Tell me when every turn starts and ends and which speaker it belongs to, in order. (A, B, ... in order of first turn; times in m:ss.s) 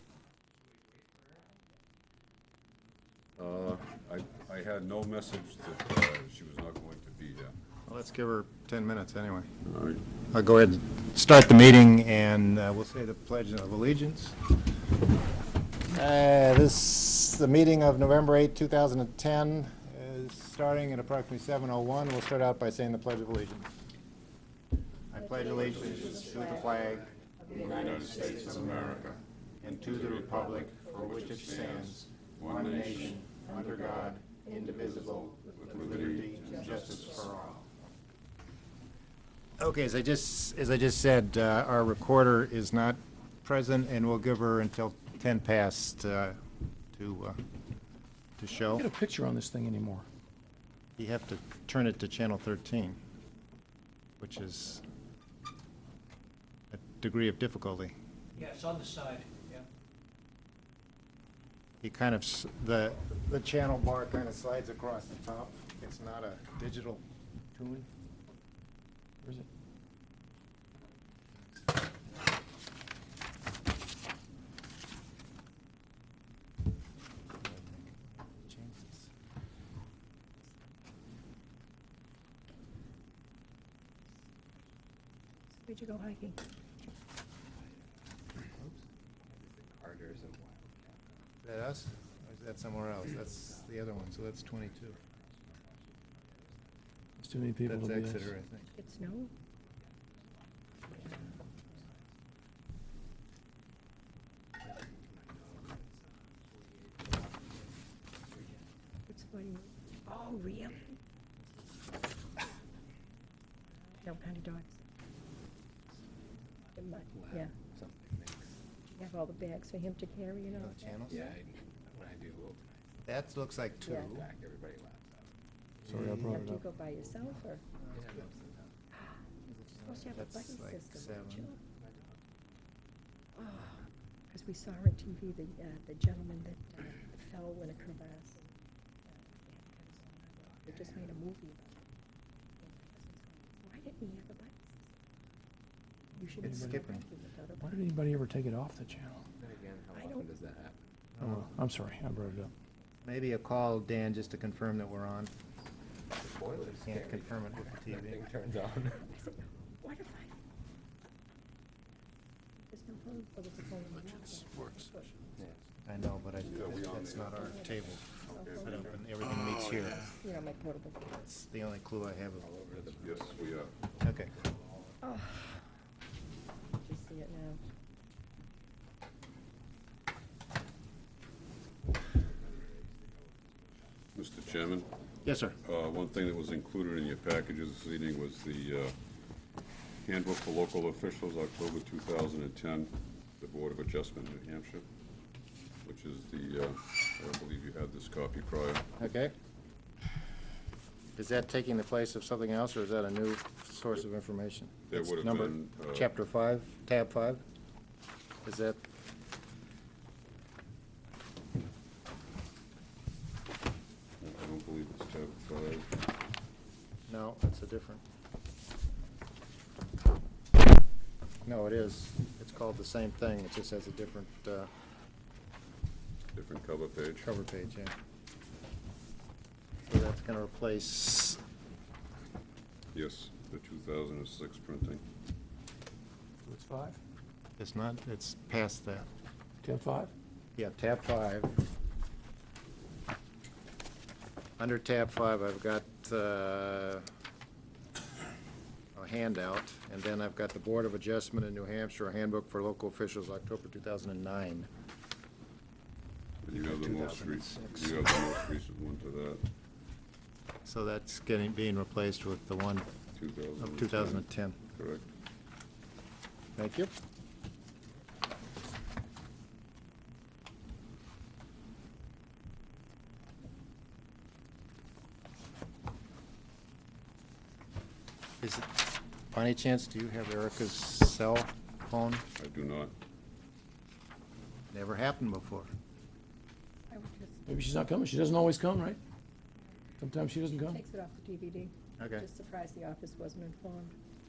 0:00.5-0:01.5 A
0:03.4-0:07.5 B
0:07.9-0:09.5 C
0:09.7-0:10.0 B
0:10.3-0:14.4 C
0:15.9-0:23.7 C
0:25.1-0:37.7 C
0:25.2-0:28.9 D
0:25.6-0:27.1 E
0:25.6-0:26.3 B
0:27.5-0:34.0 B
0:30.1-0:31.2 D
0:34.6-0:37.3 B
0:35.3-0:37.3 D
0:39.6-0:46.4 C
0:46.9-0:47.4 C
0:48.4-0:48.8 C
0:48.6-0:50.0 F
0:51.0-0:53.0 C
0:54.2-0:54.8 C
0:56.7-0:58.0 C
0:58.4-0:59.7 A
1:01.8-1:07.0 C
1:07.5-1:07.9 C
1:17.4-1:19.1 C
1:25.6-1:26.4 D
1:29.2-1:31.2 E
1:31.4-1:35.0 C
1:33.1-1:36.8 E
1:37.2-1:38.3 F
1:37.6-1:38.7 C
1:38.7-1:39.3 D
1:39.6-1:41.2 E
1:44.7-1:47.7 E
1:48.3-1:48.6 E
1:49.1-1:51.0 D
1:53.8-1:54.8 D
1:56.8-1:57.5 D
1:57.1-1:58.6 E
1:58.9-2:01.4 D
2:00.5-2:01.3 C
2:01.1-2:03.2 E
2:03.0-2:04.3 C
2:03.8-2:04.2 D
2:04.0-2:05.3 E
2:05.8-2:06.4 C
2:05.9-2:06.6 F
2:06.1-2:07.6 D
2:07.8-2:08.2 C
2:07.9-2:08.7 E
2:09.4-2:11.5 C
2:09.8-2:11.6 D
2:11.8-2:12.2 E
2:13.4-2:13.8 D
2:14.3-2:21.8 D
2:20.4-2:21.1 E
2:22.6-2:24.7 D
2:26.1-2:27.8 D
2:26.4-2:27.0 C
2:26.4-2:26.8 F
2:27.6-2:29.2 F
2:29.4-2:30.9 E
2:29.9-2:30.2 D
2:31.2-2:31.5 C
2:31.2-2:32.5 F
2:33.0-2:35.3 C
2:36.2-2:39.1 E
2:36.7-2:38.3 C
2:39.0-2:40.3 D
2:42.7-2:45.2 D
2:45.8-2:48.0 C
2:46.4-2:47.6 B
2:47.2-2:49.0 D
2:48.3-2:48.8 B
2:48.6-2:50.1 C
2:49.8-2:51.2 D
2:51.2-2:52.5 C
2:52.4-2:54.9 E
2:53.0-2:53.7 B
2:54.0-2:54.3 C
2:55.0-2:55.6 D
2:56.8-2:57.6 D
3:02.1-3:04.8 E
3:04.2-3:04.9 B
3:05.2-3:05.6 C
3:05.6-3:08.9 B
3:10.0-3:14.8 B
3:15.8-3:18.9 B
3:19.0-3:19.3 C
3:21.2-3:27.4 C
3:24.9-3:26.1 B
3:28.4-3:28.8 C
3:34.2-3:36.0 B
3:37.1-3:38.0 C
3:41.4-3:44.7 C
3:46.3-3:47.3 B
3:47.2-3:47.9 C
3:49.9-3:51.4 C
3:52.9-3:55.0 B
3:56.4-3:57.0 F
3:57.6-3:59.1 C
3:59.6-4:00.1 F
4:00.6-4:01.5 C
4:04.6-4:07.0 C
4:09.0-4:14.7 C
4:16.4-4:19.4 B
4:16.5-4:18.0 C
4:20.6-4:22.9 C
4:23.2-4:25.1 B
4:23.6-4:24.6 C
4:26.6-4:26.9 C
4:38.4-4:42.2 C
4:42.4-4:42.9 B
4:44.7-4:45.7 C
4:46.9-4:47.5 D
4:47.5-4:49.0 F
4:50.0-4:50.8 F
4:50.6-4:54.0 D
4:52.0-4:52.2 C